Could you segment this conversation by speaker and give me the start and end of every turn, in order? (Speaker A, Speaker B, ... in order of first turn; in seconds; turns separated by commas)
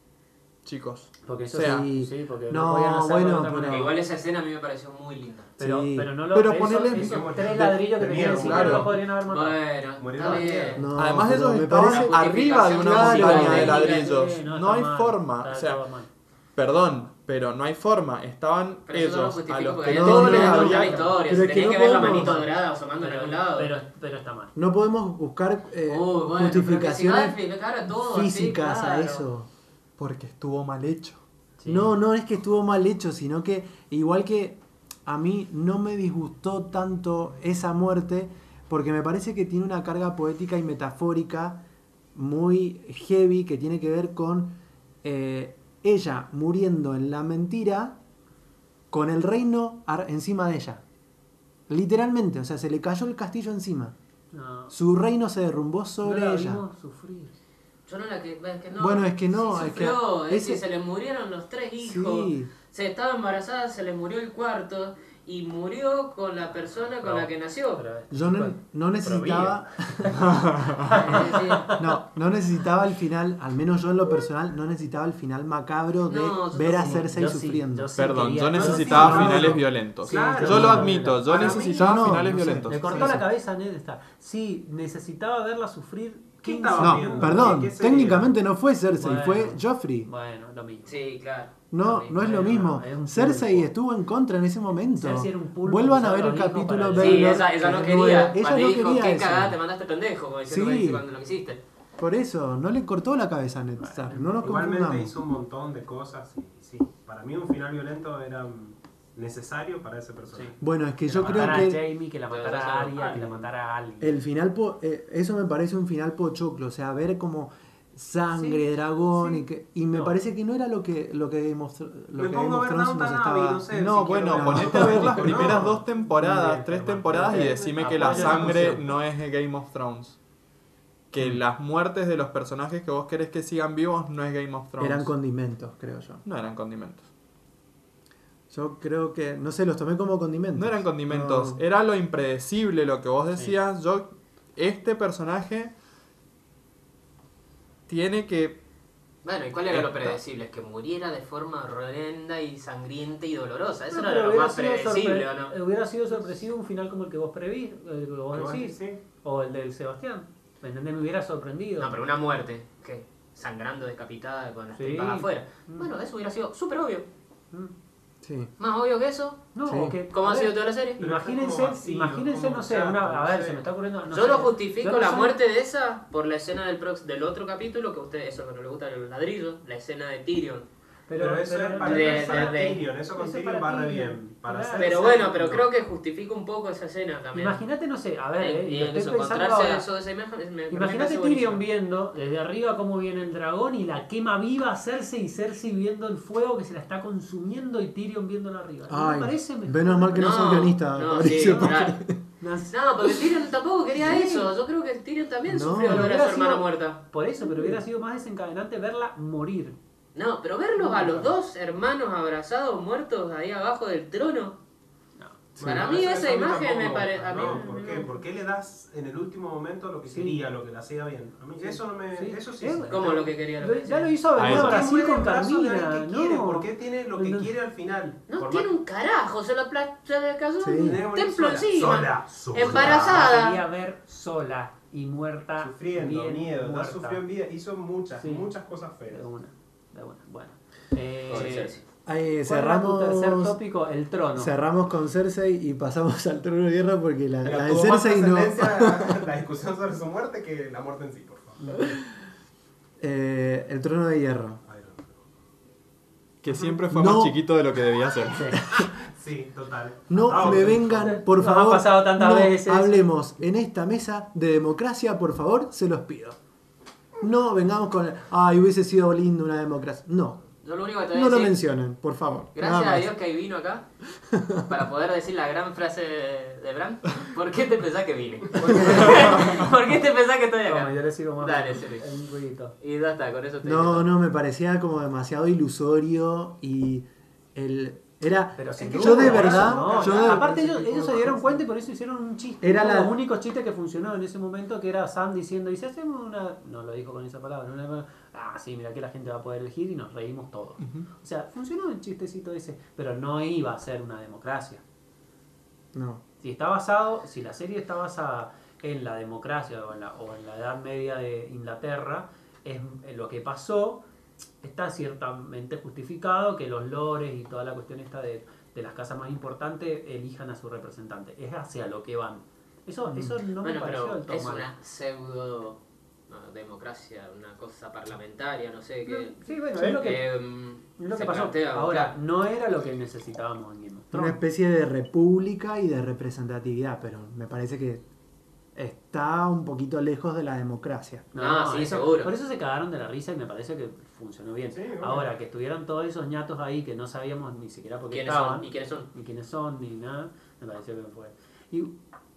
Speaker A: 0.6-1.9, Speaker B: 1.2-3.9, Speaker C: 1.5-3.9, Speaker D: 3.6-5.5, Speaker C: 5.6-6.1, Speaker B: 5.6-9.6, Speaker A: 6.3-7.6, Speaker E: 6.8-9.0, Speaker A: 8.4-8.9, Speaker D: 9.2-10.9, Speaker E: 10.0-10.8, Speaker B: 10.2-10.8, Speaker C: 10.8-12.1, Speaker A: 10.9-15.8, Speaker D: 11.8-14.1, Speaker C: 12.8-13.8, Speaker B: 13.3-16.1, Speaker A: 16.6-21.0, Speaker D: 18.9-23.8, Speaker C: 19.9-22.4, Speaker B: 20.1-21.3, Speaker B: 22.0-24.5, Speaker C: 24.5-27.4, Speaker D: 25.9-29.3, Speaker C: 27.9-29.5, Speaker A: 30.0-31.2, Speaker B: 31.6-31.9, Speaker C: 31.6-48.0, Speaker C: 48.9-50.8, Speaker C: 51.7-53.9, Speaker B: 54.3-54.7, Speaker C: 54.7-56.6, Speaker B: 56.0-57.3, Speaker D: 57.9-67.8, Speaker C: 58.8-60.6, Speaker C: 61.8-62.5, Speaker B: 67.0-70.2, Speaker C: 68.1-70.2, Speaker A: 70.1-71.0, Speaker B: 70.8-71.8, Speaker D: 70.9-71.8, Speaker C: 71.7-77.9, Speaker D: 76.1-77.1, Speaker B: 76.7-81.7, Speaker A: 77.9-83.1, Speaker E: 78.5-83.2, Speaker C: 78.9-79.5, Speaker C: 80.4-80.9, Speaker C: 81.7-83.2, Speaker B: 82.7-87.7, Speaker E: 86.4-88.3, Speaker C: 86.8-90.1, Speaker B: 89.0-90.9, Speaker D: 90.8-92.0, Speaker C: 91.7-99.6, Speaker B: 91.9-93.7, Speaker B: 94.9-97.4, Speaker D: 97.0-101.6, Speaker C: 100.5-101.0, Speaker C: 102.0-105.1, Speaker B: 103.8-104.3, Speaker E: 104.4-111.7, Speaker C: 110.6-111.8, Speaker B: 111.1-114.2, Speaker D: 112.3-113.5, Speaker C: 114.0-125.7, Speaker B: 118.3-118.6, Speaker B: 119.9-120.2, Speaker E: 122.1-125.8, Speaker A: 123.7-130.2, Speaker B: 125.5-128.9, Speaker E: 127.1-128.9, Speaker A: 131.1-135.1, Speaker C: 134.8-136.2, Speaker A: 136.2-137.1, Speaker C: 138.5-141.6, Speaker A: 140.6-145.7, Speaker A: 147.9-148.6, Speaker D: 149.2-155.5, Speaker A: 149.7-150.1, Speaker B: 153.9-162.0, Speaker E: 158.3-159.0, Speaker D: 161.8-167.1, Speaker B: 164.7-165.9, Speaker C: 168.2-168.5, Speaker D: 168.6-169.5, Speaker B: 169.5-175.4, Speaker C: 169.7-170.0, Speaker D: 170.1-171.0, Speaker E: 171.0-173.6, Speaker D: 174.1-180.7, Speaker B: 181.1-185.4, Speaker E: 181.2-185.6, Speaker D: 181.8-182.8, Speaker D: 184.7-187.6, Speaker B: 187.3-189.8, Speaker D: 188.4-191.6, Speaker B: 190.7-200.3, Speaker C: 198.9-202.2, Speaker D: 200.1-202.0, Speaker B: 202.4-202.7, Speaker D: 202.7-207.0, Speaker B: 203.9-204.5, Speaker C: 205.4-206.1, Speaker B: 205.8-209.8, Speaker D: 210.1-214.6, Speaker B: 210.8-211.3, Speaker C: 215.6-215.9, Speaker E: 215.6-223.2, Speaker D: 215.6-218.1, Speaker B: 217.3-218.0, Speaker B: 220.1-220.4, Speaker B: 221.6-227.5, Speaker D: 222.9-224.1, Speaker A: 224.3-224.9, Speaker E: 224.4-228.7, Speaker D: 228.3-233.6, Speaker C: 230.6-231.0, Speaker E: 230.8-233.3, Speaker B: 232.6-237.2, Speaker E: 235.6-239.2, Speaker B: 238.2-238.5, Speaker B: 239.1-241.7, Speaker D: 241.3-241.8, Speaker C: 242.1-243.6, Speaker B: 242.4-244.5, Speaker C: 244.3-249.3, Speaker E: 247.4-251.6, Speaker B: 251.6-251.9, Speaker C: 253.0-254.6, Speaker E: 254.6-255.2, Speaker A: 256.4-258.8, Speaker C: 256.9-257.4, Speaker B: 258.3-258.6, Speaker E: 258.7-261.2, Speaker C: 260.1-266.4, Speaker B: 260.3-263.1, Speaker C: 267.2-270.5, Speaker D: 270.6-271.6, Speaker C: 271.1-273.1, Speaker D: 272.6-273.9, Speaker C: 274.3-274.7, Speaker D: 274.7-282.1, Speaker B: 278.6-279.5, Speaker C: 278.6-279.2, Speaker B: 280.6-282.8, Speaker D: 282.8-284.1, Speaker C: 283.6-290.6, Speaker B: 288.6-304.8, Speaker E: 288.8-291.6, Speaker C: 292.6-293.1, Speaker A: 300.8-301.1, Speaker C: 305.9-306.2, Speaker B: 306.4-314.0, Speaker B: 314.6-324.7, Speaker C: 323.1-323.4, Speaker D: 323.6-332.1, Speaker B: 329.1-330.3, Speaker B: 331.0-334.4, Speaker C: 334.1-338.0, Speaker C: 338.7-341.3, Speaker B: 341.3-351.9, Speaker D: 341.4-342.3, Speaker E: 344.7-345.3, Speaker D: 348.1-349.1